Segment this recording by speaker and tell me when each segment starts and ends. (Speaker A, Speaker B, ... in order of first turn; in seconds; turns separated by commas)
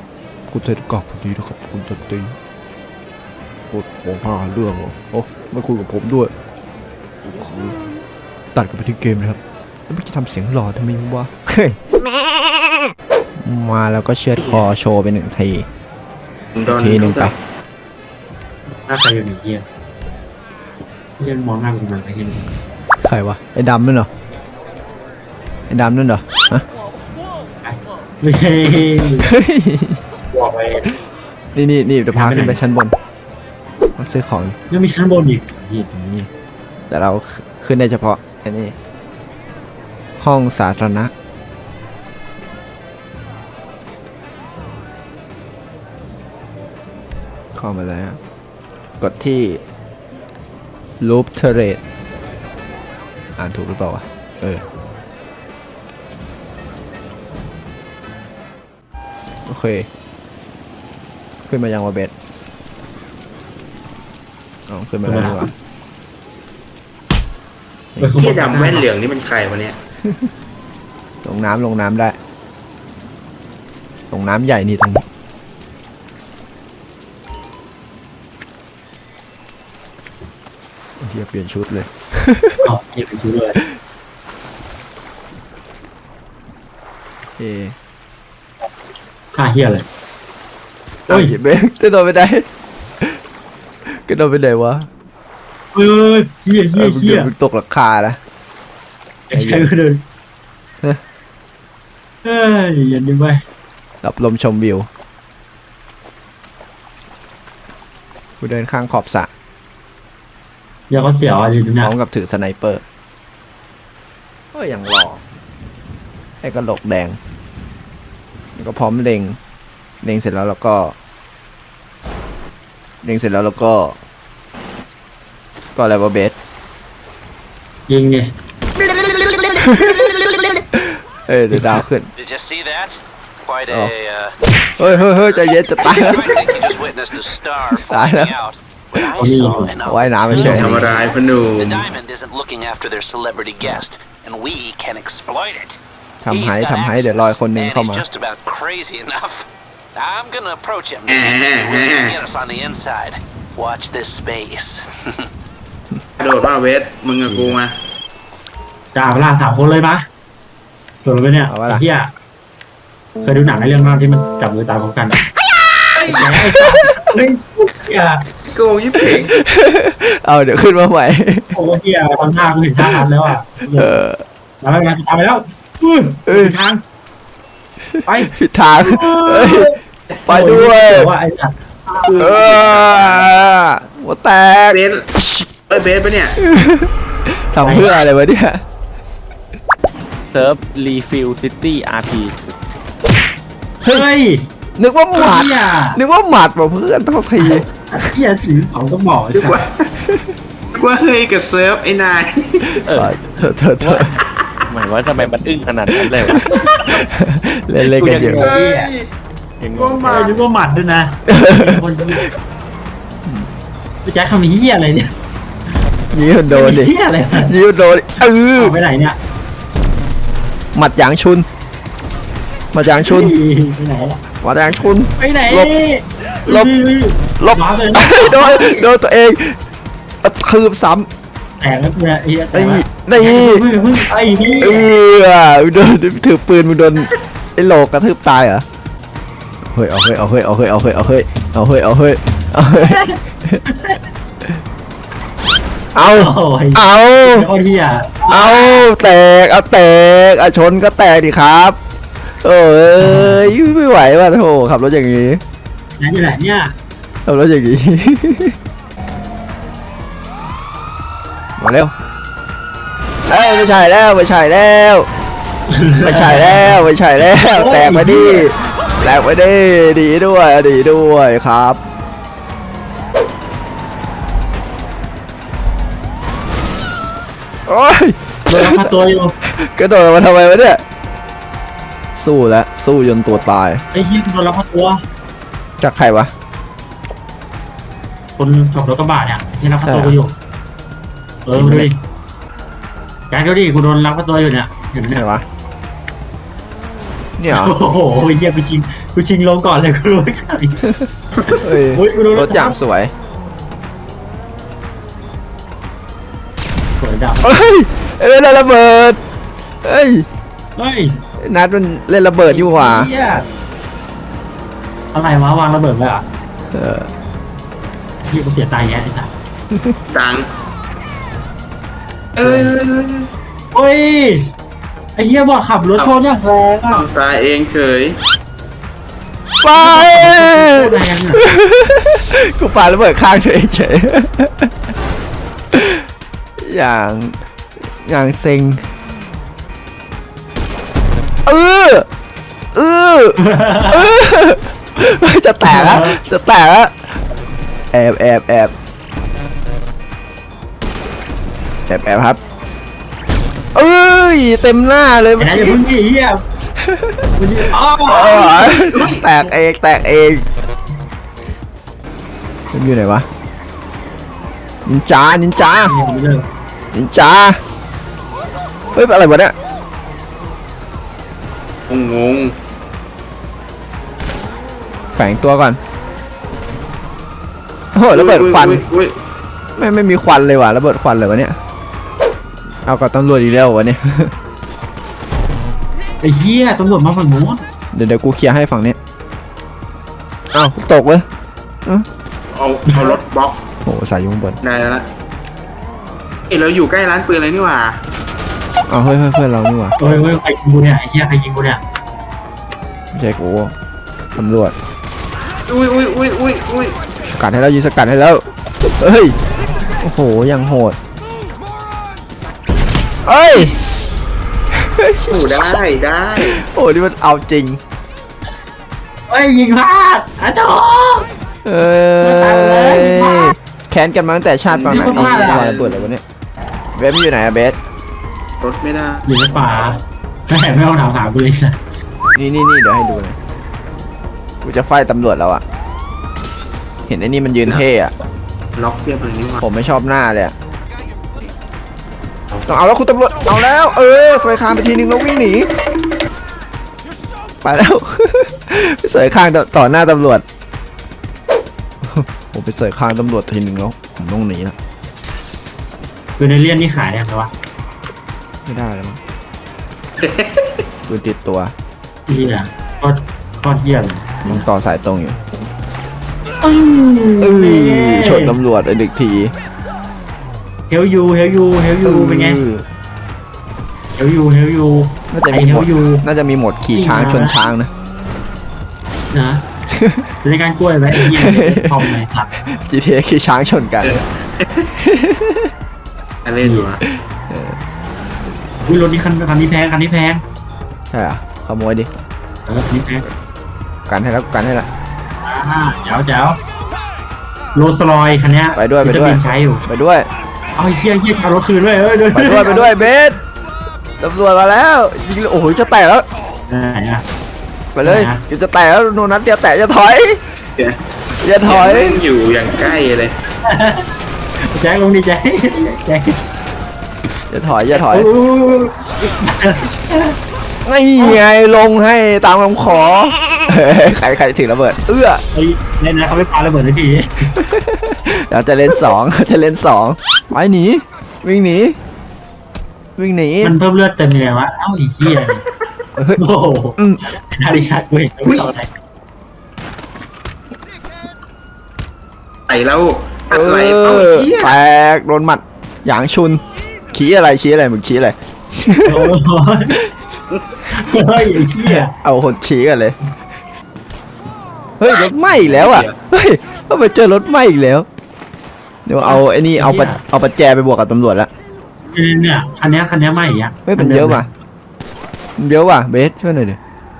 Speaker A: 0.5-2.3, Speaker A: 3.7-6.3, Speaker A: 7.3-7.8, Speaker A: 8.5-11.8, Speaker A: 13.4-15.7, Speaker B: 16.5-17.3, Speaker A: 16.6-17.3, Speaker C: 18.7-19.6, Speaker C: 21.2-22.4, Speaker A: 23.0-24.1, Speaker A: 25.7-26.6, Speaker C: 27.6-29.3, Speaker A: 29.2-30.0, Speaker C: 30.3-30.9, Speaker A: 31.5-32.9, Speaker C: 32.1-32.6, Speaker A: 34.0-34.6, Speaker C: 34.7-35.9, Speaker A: 35.9-36.3, Speaker A: 36.9-38.7, Speaker A: 40.2-41.1, Speaker A: 47.5-48.2, Speaker A: 49.0-49.6, Speaker A: 51.0-51.8, Speaker A: 53.4-54.6, Speaker A: 59.5-59.9, Speaker A: 61.5-62.1, Speaker A: 64.7-65.5, Speaker C: 65.0-65.5, Speaker C: 68.0-68.9, Speaker B: 68.2-69.8, Speaker A: 70.0-70.3, Speaker A: 71.2-72.2, Speaker A: 74.1-75.0, Speaker A: 81.0-82.7, Speaker C: 82.6-83.6, Speaker A: 87.4-87.7, Speaker C: 89.3-89.8, Speaker A: 91.1-92.4, Speaker C: 91.1-91.3, Speaker A: 93.9-94.9, Speaker C: 95.7-97.3, Speaker A: 96.7-98.2, Speaker C: 99.3-100.0, Speaker A: 99.3-99.7, Speaker C: 102.2-103.4, Speaker A: 104.0-104.9, Speaker A: 108.4-109.3, Speaker C: 110.9-111.9, Speaker A: 111.8-112.8, Speaker A: 114.5-115.2, Speaker A: 116.4-117.2, Speaker A: 118.5-119.4, Speaker A: 120.0-120.9, Speaker A: 123.0-124.0, Speaker A: 125.8-126.3, Speaker C: 127.9-128.3, Speaker A: 129.6-130.2, Speaker A: 130.7-132.1, Speaker D: 132.2-134.3, Speaker A: 133.7-133.9, Speaker A: 134.8-136.5, Speaker D: 135.8-155.3, Speaker A: 137.7-138.4, Speaker C: 139.2-139.8, Speaker A: 139.8-140.8, Speaker B: 140.3-141.9, Speaker C: 140.3-140.8, Speaker A: 146.2-148.1, Speaker B: 151.1-152.2, Speaker B: 156.2-157.7, Speaker A: 157.3-157.6, Speaker C: 158.9-160.0, Speaker C: 161.0-162.1, Speaker A: 161.5-161.8, Speaker C: 163.2-165.2, Speaker B: 166.0-166.4, Speaker A: 166.0-167.0, Speaker C: 166.1-168.2, Speaker B: 168.4-169.3, Speaker A: 169.0-171.5, Speaker C: 171.5-174.0, Speaker A: 172.8-173.1, Speaker A: 173.8-174.2, Speaker C: 174.6-176.8, Speaker A: 176.3-176.6, Speaker A: 178.0-179.7, Speaker C: 178.1-182.2, Speaker A: 180.2-181.1, Speaker A: 182.1-185.7, Speaker B: 182.2-183.1, Speaker B: 184.7-185.1, Speaker B: 185.7-186.4, Speaker A: 186.4-188.6, Speaker C: 187.6-187.9, Speaker E: 190.3-192.3, Speaker C: 193.9-194.4, Speaker A: 194.8-198.1, Speaker C: 195.1-196.0, Speaker C: 197.4-199.6, Speaker B: 199.3-199.8, Speaker A: 200.0-200.3, Speaker B: 200.7-202.8, Speaker A: 202.8-204.2, Speaker E: 203.8-204.1, Speaker E: 204.7-206.4, Speaker A: 206.1-208.5, Speaker C: 208.0-208.9, Speaker B: 208.4-209.1, Speaker E: 209.6-210.1, Speaker B: 209.7-210.3, Speaker C: 210.1-212.3, Speaker A: 211.3-211.9, Speaker C: 214.0-215.1, Speaker A: 216.1-218.8, Speaker C: 216.5-217.5, Speaker C: 218.6-219.2, Speaker A: 220.7-221.4, Speaker A: 222.7-223.3, Speaker C: 222.8-224.2, Speaker A: 224.4-225.7, Speaker C: 225.2-228.8, Speaker A: 226.4-226.7, Speaker A: 227.4-229.6, Speaker A: 230.2-231.1, Speaker C: 231.6-234.9, Speaker A: 232.5-233.7, Speaker A: 234.6-238.6, Speaker A: 239.7-243.6, Speaker C: 242.8-243.2, Speaker A: 245.9-247.5, Speaker C: 246.1-248.8, Speaker A: 248.3-251.8, Speaker A: 252.4-255.4, Speaker C: 256.0-256.7, Speaker A: 257.2-258.6, Speaker A: 261.6-261.9, Speaker A: 263.3-265.1, Speaker C: 265.7-266.7, Speaker A: 266.0-271.8, Speaker C: 267.4-268.5, Speaker A: 277.7-278.9, Speaker C: 278.5-279.3, Speaker A: 279.4-280.8, Speaker A: 282.2-283.8, Speaker C: 283.9-285.0, Speaker A: 285.8-286.3, Speaker C: 288.4-290.3, Speaker A: 289.8-290.2, Speaker C: 291.4-292.0, Speaker A: 291.5-291.9, Speaker C: 293.3-295.2, Speaker A: 295.1-295.4, Speaker A: 297.4-297.7, Speaker C: 297.5-300.8, Speaker A: 301.6-303.1, Speaker C: 301.7-302.8, Speaker C: 307.0-307.7, Speaker A: 307.4-309.2, Speaker A: 309.8-310.2, Speaker C: 310.8-311.1, Speaker A: 311.4-313.1, Speaker C: 312.4-313.4, Speaker C: 315.1-316.2, Speaker A: 316.7-317.1, Speaker C: 318.3-319.3, Speaker B: 320.1-320.5, Speaker B: 322.4-323.3, Speaker C: 322.4-322.7, Speaker C: 323.7-324.5, Speaker C: 325.1-327.0, Speaker B: 326.9-328.2, Speaker A: 329.6-334.7, Speaker C: 329.7-331.4, Speaker A: 335.7-336.1, Speaker A: 336.6-337.4, Speaker A: 338.0-338.8, Speaker A: 341.4-342.1, Speaker A: 342.7-347.2, Speaker C: 343.4-344.1, Speaker C: 345.6-346.2, Speaker A: 347.9-348.7, Speaker A: 351.9-352.4, Speaker A: 353.7-355.8, Speaker C: 355.4-356.4, Speaker A: 356.8-357.2, Speaker C: 357.4-358.8, Speaker A: 358.1-360.4, Speaker B: 358.5-359.2, Speaker A: 362.7-363.3, Speaker A: 364.9-365.9, Speaker C: 365.8-366.4, Speaker A: 366.9-367.6, Speaker A: 368.9-369.5, Speaker B: 371.9-372.5, Speaker A: 375.1-375.8, Speaker A: 377.9-378.8, Speaker B: 378.1-379.1, Speaker A: 379.8-381.6, Speaker A: 382.8-384.3, Speaker C: 386.2-387.6, Speaker A: 387.9-389.0, Speaker A: 390.5-391.2, Speaker B: 392.5-393.6, Speaker A: 393.8-394.6, Speaker B: 394.6-395.1, Speaker B: 396.5-398.0, Speaker A: 398.9-400.0, Speaker C: 400.0-401.8, Speaker A: 403.1-403.7, Speaker A: 404.4-404.7, Speaker B: 405.7-407.0, Speaker A: 407.2-409.4, Speaker A: 410.0-411.0, Speaker A: 413.2-413.7, Speaker A: 414.7-415.8, Speaker B: 415.3-416.6, Speaker A: 416.4-417.8, Speaker C: 419.3-421.3, Speaker A: 421.6-426.2, Speaker C: 422.2-423.5, Speaker B: 424.7-426.0, Speaker C: 424.8-425.7, Speaker A: 426.9-427.8, Speaker B: 428.6-429.2, Speaker C: 429.2-431.8, Speaker A: 432.3-433.4, Speaker A: 434.6-435.6, Speaker A: 437.1-438.1, Speaker B: 438.8-439.6, Speaker A: 439.6-440.5, Speaker A: 442.6-445.7, Speaker A: 447.6-450.4, Speaker A: 452.0-454.7, Speaker C: 456.4-457.5, Speaker A: 458.6-459.2, Speaker B: 460.2-460.8, Speaker A: 461.1-461.7, Speaker C: 462.3-464.6, Speaker A: 464.4-465.4, Speaker C: 466.6-468.6, Speaker A: 467.4-469.5, Speaker C: 470.9-472.6, Speaker A: 472.0-472.8, Speaker C: 474.2-476.2, Speaker A: 475.3-477.9, Speaker C: 476.9-477.6, Speaker C: 479.3-479.6, Speaker A: 479.9-480.2, Speaker C: 480.4-482.5, Speaker A: 481.1-482.0, Speaker A: 482.6-484.2, Speaker B: 484.0-484.9, Speaker A: 485.0-485.7, Speaker B: 486.4-487.0, Speaker C: 486.6-486.9, Speaker A: 487.0-487.8, Speaker C: 488.9-490.4, Speaker A: 491.1-492.1, Speaker C: 492.7-493.2, Speaker A: 494.1-494.9, Speaker C: 495.4-496.6, Speaker C: 497.7-499.8, Speaker A: 498.8-500.3, Speaker C: 500.7-503.0, Speaker A: 502.3-503.4, Speaker A: 504.2-506.3, Speaker C: 506.7-507.2, Speaker A: 507.9-510.4, Speaker C: 508.0-508.4, Speaker A: 511.4-512.2, Speaker B: 511.6-513.3, Speaker C: 513.6-514.0, Speaker C: 514.6-516.4, Speaker A: 517.5-518.3, Speaker C: 517.9-520.4, Speaker A: 520.8-525.4, Speaker C: 525.5-527.5, Speaker A: 527.6-532.0, Speaker A: 533.2-533.8, Speaker C: 533.6-535.6, Speaker C: 536.4-538.9, Speaker A: 537.0-537.2, Speaker B: 542.7-544.8, Speaker A: 543.5-549.3, Speaker C: 549.0-550.0, Speaker C: 550.9-552.1, Speaker A: 551.9-553.2, Speaker A: 555.0-558.1, Speaker B: 555.6-556.1, Speaker A: 559.0-561.5, Speaker C: 559.2-560.2, Speaker C: 562.1-564.4, Speaker A: 563.9-564.5, Speaker A: 565.6-566.8